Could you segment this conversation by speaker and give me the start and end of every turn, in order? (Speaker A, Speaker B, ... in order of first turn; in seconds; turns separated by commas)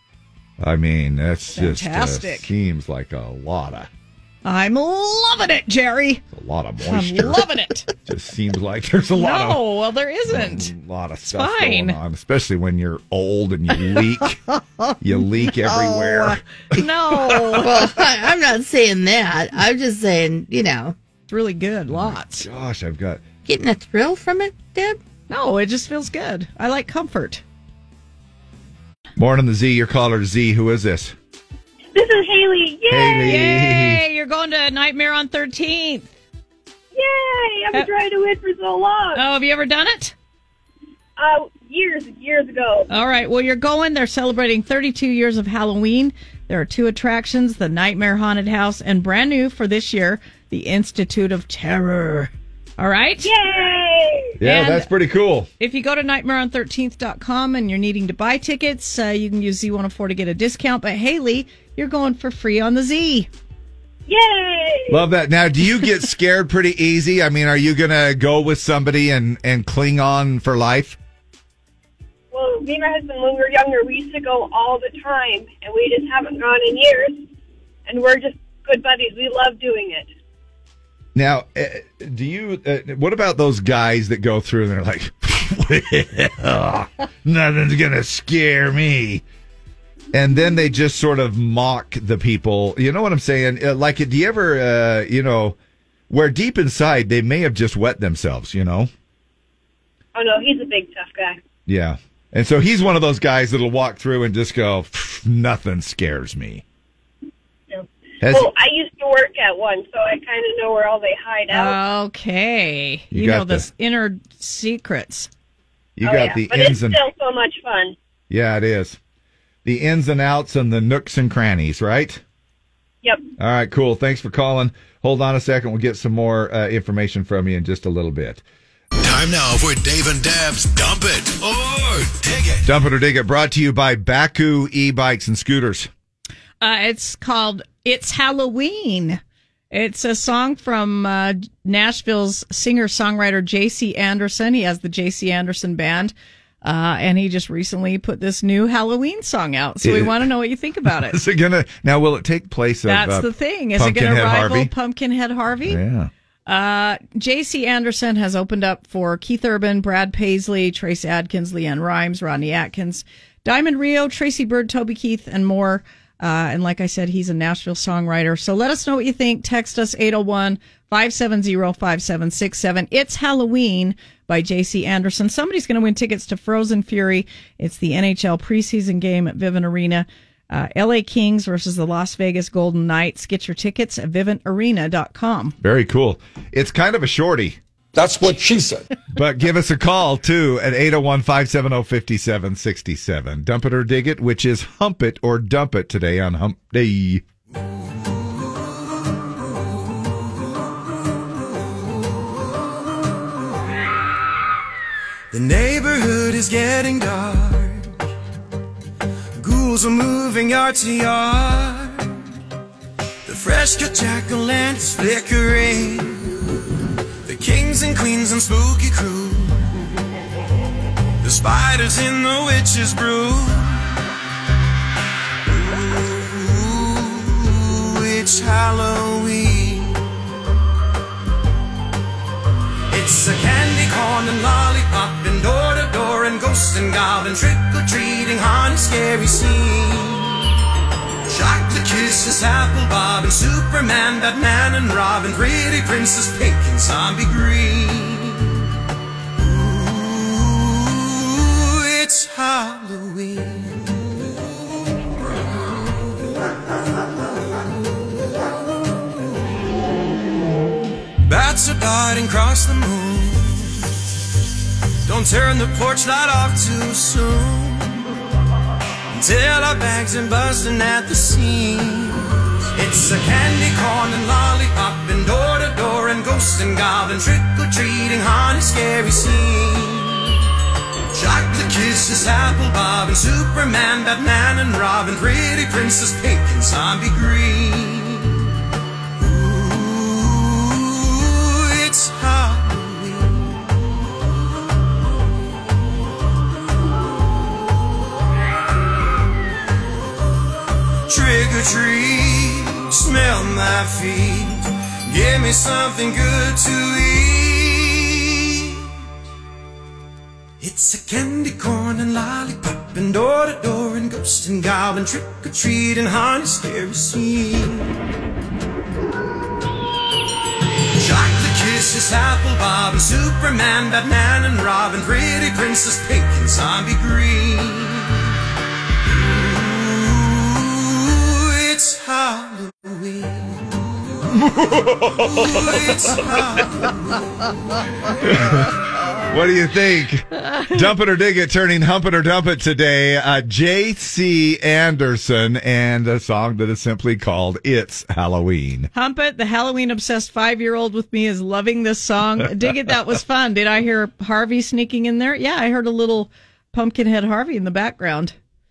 Speaker A: 0.6-3.9, Speaker B: 1.5-2.5, Speaker B: 4.4-6.2, Speaker A: 6.3-7.5, Speaker B: 6.8-7.9, Speaker A: 8.1-9.6, Speaker B: 9.2-10.7, Speaker A: 10.3-14.4, Speaker B: 11.3-12.0, Speaker A: 15.0-16.4, Speaker B: 15.7-17.9, Speaker A: 17.2-17.6, Speaker C: 17.5-20.9, Speaker B: 21.3-22.5, Speaker A: 21.9-23.2, Speaker C: 23.4-25.0, Speaker B: 25.3-27.4, Speaker A: 29.2-31.1, Speaker D: 31.9-33.4, Speaker A: 32.9-34.0, Speaker B: 33.2-36.1, Speaker D: 36.9-39.2, Speaker B: 39.1-40.1, Speaker D: 41.2-42.9, Speaker B: 42.9-53.3, Speaker D: 53.2-54.3, Speaker A: 54.4-55.5, Speaker B: 54.4-54.9, Speaker B: 55.6-63.3, Speaker D: 64.1-65.0, Speaker A: 64.9-71.0, Speaker D: 72.3-77.3, Speaker D: 77.9-80.1, Speaker A: 81.2-89.2, Speaker A: 90.1-95.6, Speaker A: 96.1-98.9, Speaker D: 100.2-101.4, Speaker A: 101.7-106.6, Speaker D: 107.7-111.8, Speaker A: 108.2-108.5, Speaker B: 111.5-115.3, Speaker A: 113.1-113.7, Speaker A: 116.0-117.0, Speaker D: 116.0-118.0, Speaker A: 118.3-119.0, Speaker A: 119.7-122.2, Speaker A: 123.4-128.4, Speaker E: 129.0-132.6, Speaker A: 132.6-135.9, Speaker B: 136.6-139.2, Speaker B: 139.7-151.2, Speaker A: 149.8-150.2, Speaker A: 151.0-154.7, Speaker B: 152.9-155.8, Speaker A: 155.7-156.1, Speaker B: 156.5-185.6, Speaker A: 185.6-187.6, Speaker A: 189.1-197.2, Speaker F: 205.3-207.9, Speaker F: 209.4-212.1, Speaker F: 213.3-216.5, Speaker F: 217.2-219.6, Speaker F: 221.2-223.9, Speaker F: 225.5-230.0, Speaker F: 232.9-240.6, Speaker F: 241.3-248.7, Speaker F: 249.4-254.3, Speaker F: 255.2-256.0, Speaker F: 261.2-263.9, Speaker F: 265.0-268.1, Speaker F: 269.1-280.5, Speaker F: 281.1-288.5, Speaker F: 289.2-293.7, Speaker F: 301.1-308.9, Speaker F: 310.6-317.9, Speaker F: 321.0-328.4, Speaker F: 329.1-334.2, Speaker A: 334.6-335.0, Speaker F: 335.1-337.2, Speaker A: 338.2-338.7, Speaker A: 339.3-348.9, Speaker B: 348.9-358.4